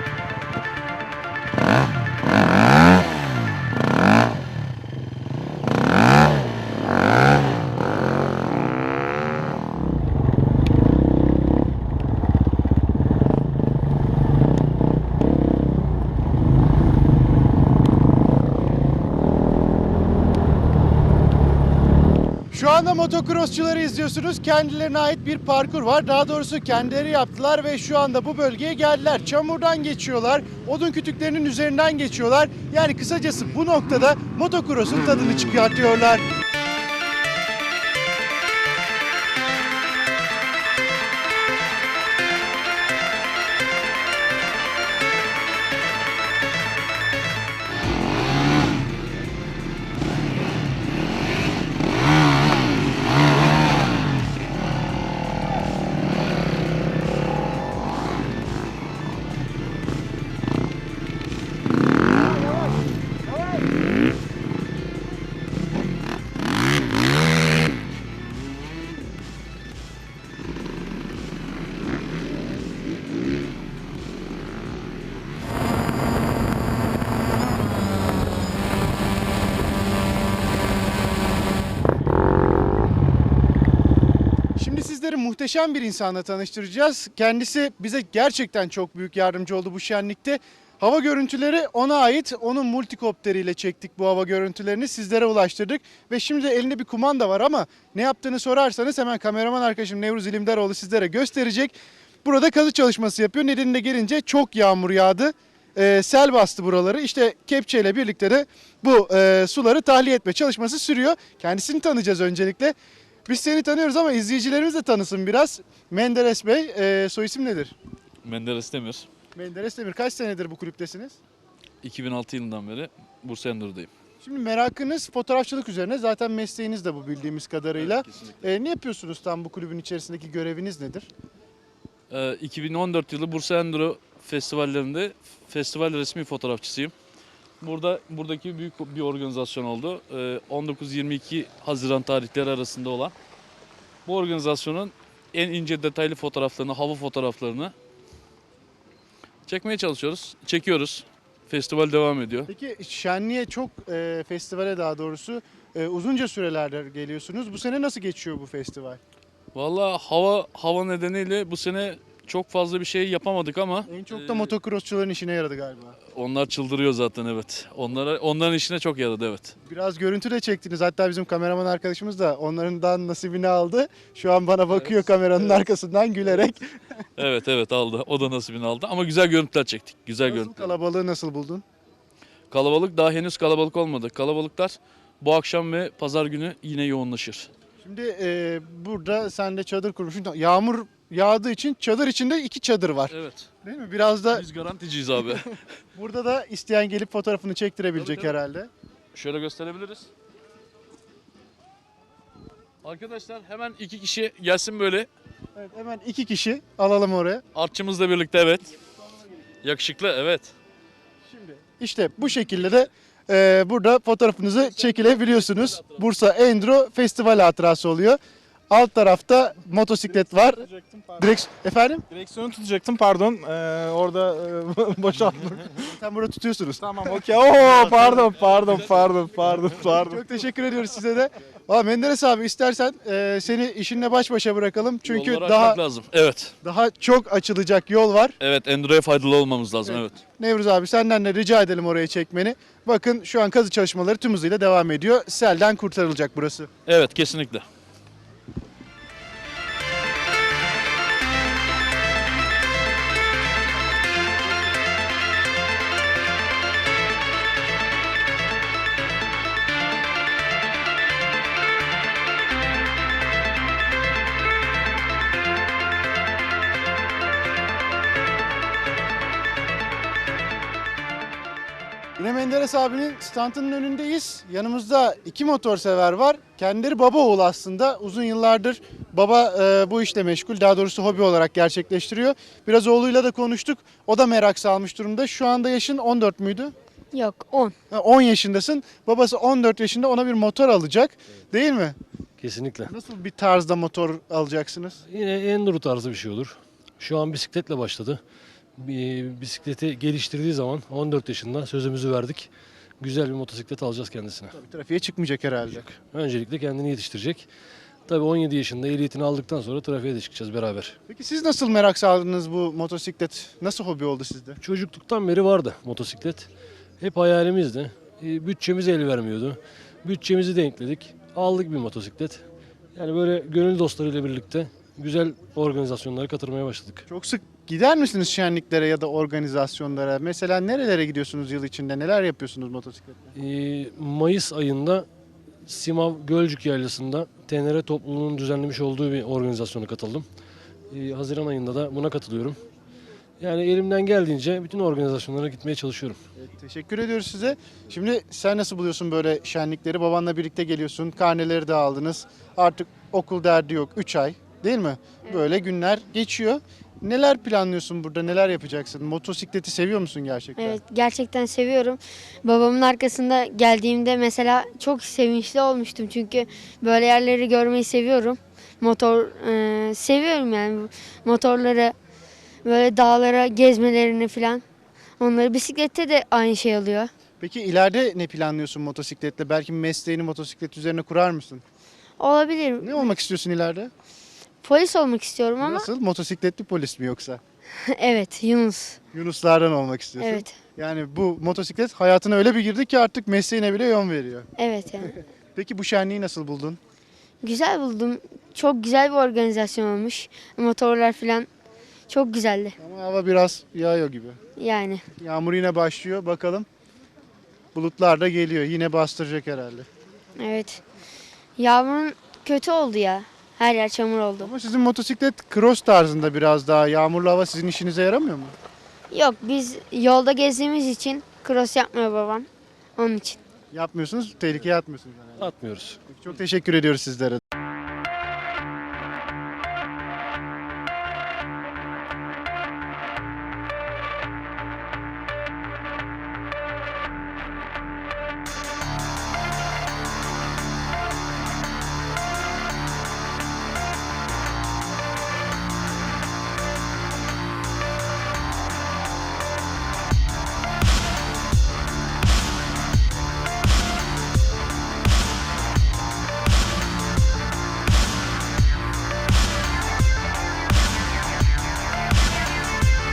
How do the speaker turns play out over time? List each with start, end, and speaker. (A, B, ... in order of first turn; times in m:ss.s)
0:22.5-0:36.2 A
1:24.6-1:52.8 A
1:53.3-1:57.8 A
1:58.2-1:59.1 B
1:59.4-2:01.2 A
2:01.8-2:03.9 B
2:04.2-2:11.1 A
2:12.1-2:16.9 B
2:17.6-2:23.1 B
2:24.0-2:27.7 B
2:29.5-2:32.5 B
2:32.5-2:39.0 A
2:39.5-2:44.5 B
2:43.9-2:46.0 A
2:46.1-2:49.5 B
2:49.6-2:56.7 A
2:57.2-3:00.7 B
3:00.2-3:01.6 A
3:02.5-3:07.5 B
3:07.8-3:14.4 A
3:13.1-3:13.4 B
3:14.4-3:15.4 B
3:16.0-3:18.7 A
3:18.0-3:18.3 B
3:19.1-3:20.1 B
3:22.8-3:25.1 B
3:25.6-3:27.4 A
3:27.5-3:28.7 B
3:29.6-3:30.5 B
3:31.3-3:38.2 A
3:38.7-3:40.7 A
3:41.2-3:42.0 A
3:42.1-3:45.6 C
3:45.8-3:48.1 A
3:46.8-3:50.2 C
3:50.0-3:55.8 A
3:55.1-3:56.5 B
3:56.6-3:58.4 A
3:58.4-4:00.1 B
3:59.9-4:06.7 A
4:06.9-4:07.6 B
4:32.2-4:46.7 A
4:47.1-4:47.7 D
4:47.9-4:52.0 A
4:52.4-4:52.9 E
4:52.9-4:55.0 A
4:55.1-4:58.2 E
4:58.8-5:04.5 E
5:04.6-5:05.9 A
5:05.9-5:07.5 E
5:08.1-5:11.0 E
5:11.1-5:14.6 A
5:14.6-5:16.5 E
5:17.0-5:22.4 E
5:23.0-5:27.0 E
5:27.1-5:33.3 A
5:33.4-5:35.1 E
5:35.7-5:40.3 E
5:40.9-5:42.6 E
5:43.4-5:46.2 E
5:46.4-6:00.8 A
6:00.6-6:12.0 D
6:12.6-6:14.6 D
6:15.2-6:17.1 D
6:17.4-6:21.6 A
6:22.2-6:23.2 D
6:22.8-6:23.9 A
6:24.6-6:25.9 D
6:25.6-6:27.4 A
6:27.8-6:29.0 D
6:29.1-6:34.5 A
6:30.2-6:30.6 D
6:34.6-6:35.1 D
6:35.6-6:36.8 A
6:37.4-6:41.5 D
6:42.1-6:42.8 D
6:42.8-6:44.4 A
6:44.6-6:45.0 D
6:45.2-6:46.7 A
6:47.8-6:49.9 A
6:50.4-6:50.8 D
6:51.6-6:54.5 D
6:54.4-6:58.5 A
6:59.1-7:03.4 D
7:03.7-7:05.5 A
7:05.4-7:06.0 E
7:06.1-7:07.4 A